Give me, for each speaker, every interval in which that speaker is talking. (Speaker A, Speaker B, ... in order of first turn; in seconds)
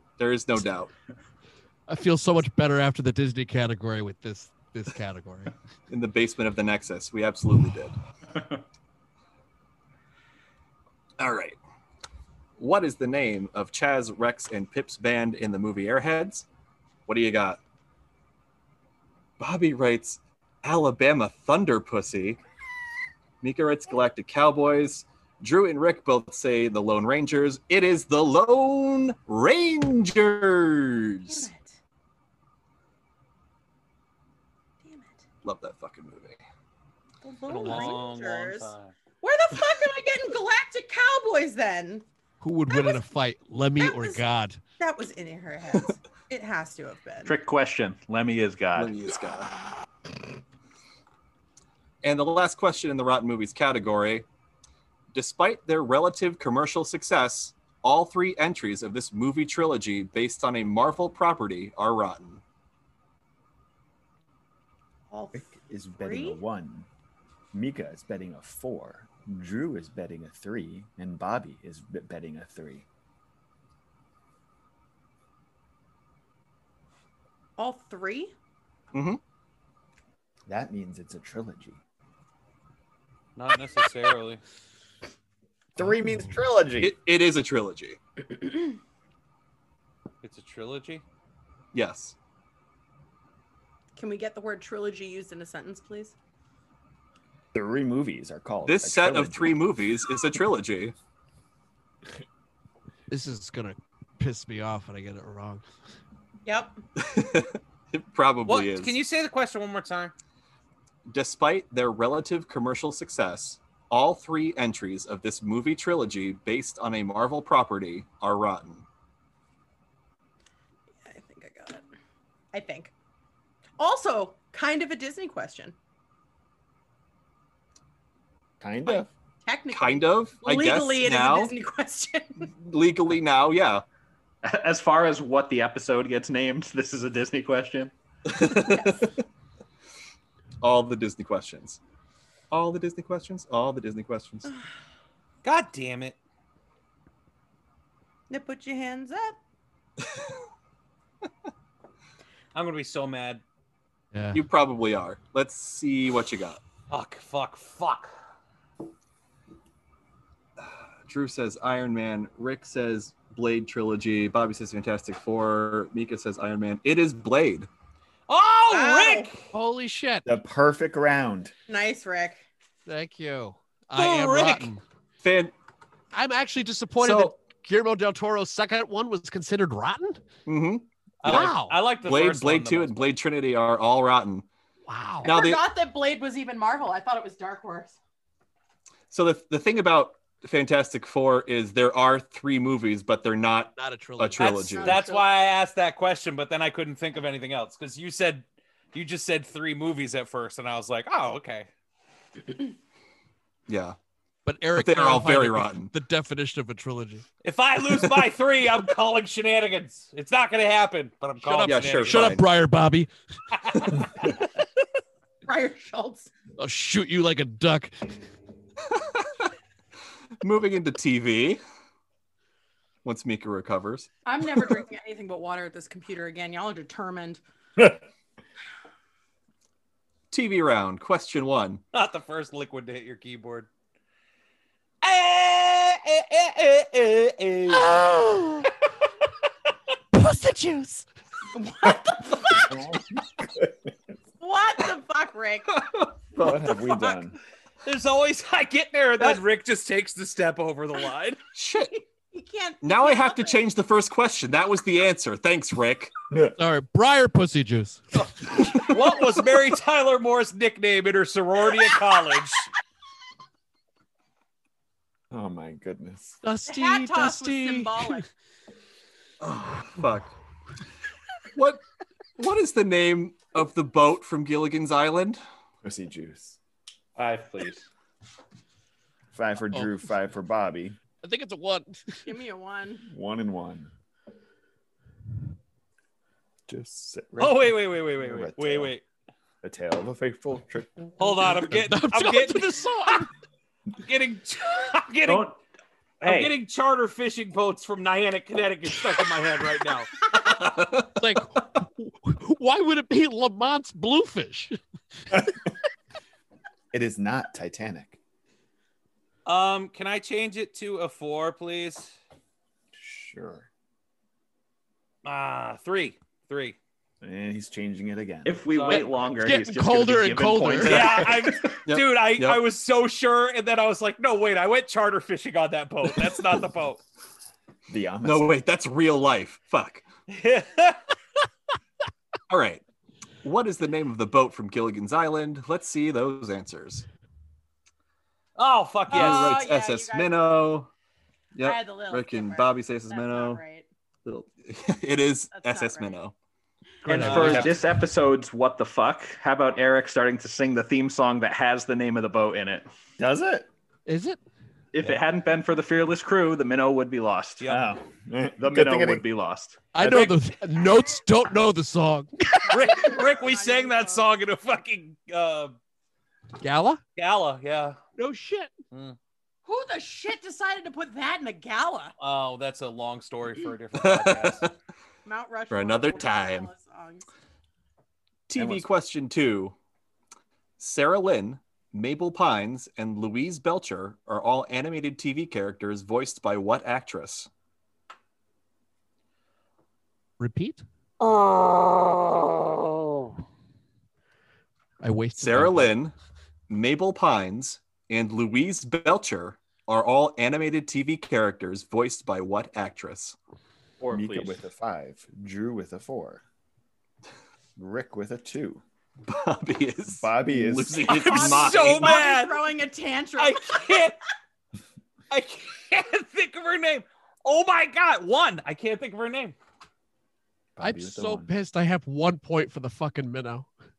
Speaker A: 0.2-0.9, 5.9-8.0, 11.2-11.6, 12.6-16.4, 17.1-17.6, 19.4-22.4, 23.4-31.5, 35.4-36.4, 48.8-49.5, 52.0-54.2, 55.1-62.4, 78.9-79.2, 86.8-88.0, 91.7-92.1, 98.7-100.9, 107.0-108.9, 111.1-118.8, 129.7-131.5, 132.5-133.8, 138.3-139.1, 140.6-141.8, 142.5-144.5, 154.3-156.6, 161.1-167.7, 175.2-175.5, 177.0-177.3, 180.4-184.4, 185.2-185.6, 189.1-195.0, 203.7-203.9, 204.7-205.9, 211.6-212.5, 220.4-221.6, 223.0-224.1, 230.3-231.8, 251.5-252.0, 252.8-256.1, 269.4-270.3, 271.5-271.8, 272.4-275.4, 321.9-322.6, 328.2-330.1, 332.5-332.8, 333.4-337.0, 339.1-340.9, 341.5-343.6, 344.2-346.3, 373.9-374.7, 375.7-376.7, 378.5-379.7, 380.8-387.5, 395.4-396.1, 396.7-403.4, 409.3-412.2
Speaker B: 1.9-5.5, 37.6-37.9, 42.4-44.6, 103.1-105.6, 154.1-154.4, 169.5-170.2, 172.8-174.8, 176.1-180.2, 181.2-181.8, 184.9-185.3, 193.8-194.4, 204.4-207.2, 211.4-213.1, 216.6-218.1, 237.7-238.7, 240.1-241.0, 256.6-258.5, 266.4-268.2, 281.2-282.3, 291.7-293.3, 301.2-304.8, 319.4-321.2, 347.0-347.7, 354.1-354.4, 359.9-362.6, 366.6-367.0, 368.2-368.7, 390.4-390.8, 395.0-395.9, 420.8-423.7
Speaker C: 31.3-31.8, 34.8-35.2, 37.2-42.0, 42.7-43.0, 43.8-44.2, 44.8-47.3, 65.1-66.4, 77.6-78.3, 94.0-96.1, 106.5-106.8, 121.0-121.8, 122.5-122.9, 123.8-125.7, 129.4-132.5, 138.6-139.1, 148.3-149.4, 168.7-169.3, 171.7-172.4, 185.2-188.0, 194.4-195.3, 215.4-216.3, 224.2-227.4, 241.5-242.8, 244.4-245.8, 252.3-253.6, 266.6-268.2, 282.2-283.1, 339.1-340.4, 341.6-343.9, 345.5-346.2, 362.7-364.3, 369.6-372.1, 375.2-377.2, 411.1-414.0
Speaker D: 37.5-38.9, 83.3-84.4, 90.2-91.0, 108.5-110.1, 145.4-146.2, 152.5-153.4, 156.9-158.1, 168.3-169.5, 173.9-174.7, 181.2-183.1, 194.4-201.7, 207.4-212.4, 213.5-214.0, 231.9-233.7, 235.0-238.0, 247.8-251.4, 258.2-262.7, 287.4-289.0, 291.2-293.3, 294.0-295.5, 296.2-300.2, 309.4-312.1, 315.2-316.8, 318.7-319.1, 320.8-327.0, 330.3-331.0, 338.6-339.6, 347.1-347.7, 362.7-365.8, 367.1-368.0, 368.9-369.2, 372.2-374.7, 411.1-412.6, 413.4-414.2, 415.3-419.5
Speaker E: 47.2-48.9, 134.4-137.9, 277.1-277.9, 295.2-295.6, 296.2-296.5, 318.4-321.7, 347.1-352.9, 354.9-357.7, 358.6-360.3, 404.0-404.6
Speaker F: 65.3-66.9, 67.5-72.8, 80.5-81.8, 85.8-86.9, 97.5-99.6, 128.6-129.1, 170.2-171.5, 242.5-243.7, 246.4-247.4, 265.3-266.4, 275.8-276.6, 279.3-281.0, 283.1-283.9, 286.7-288.9, 289.6-291.3, 306.9-308.2, 312.9-313.7, 317.2-318.6, 327.9-328.6, 353.2-353.7, 357.7-359.2, 378.5-378.9, 404.1-406.4, 407.8-408.8, 410.1-411.2, 420.8-421.5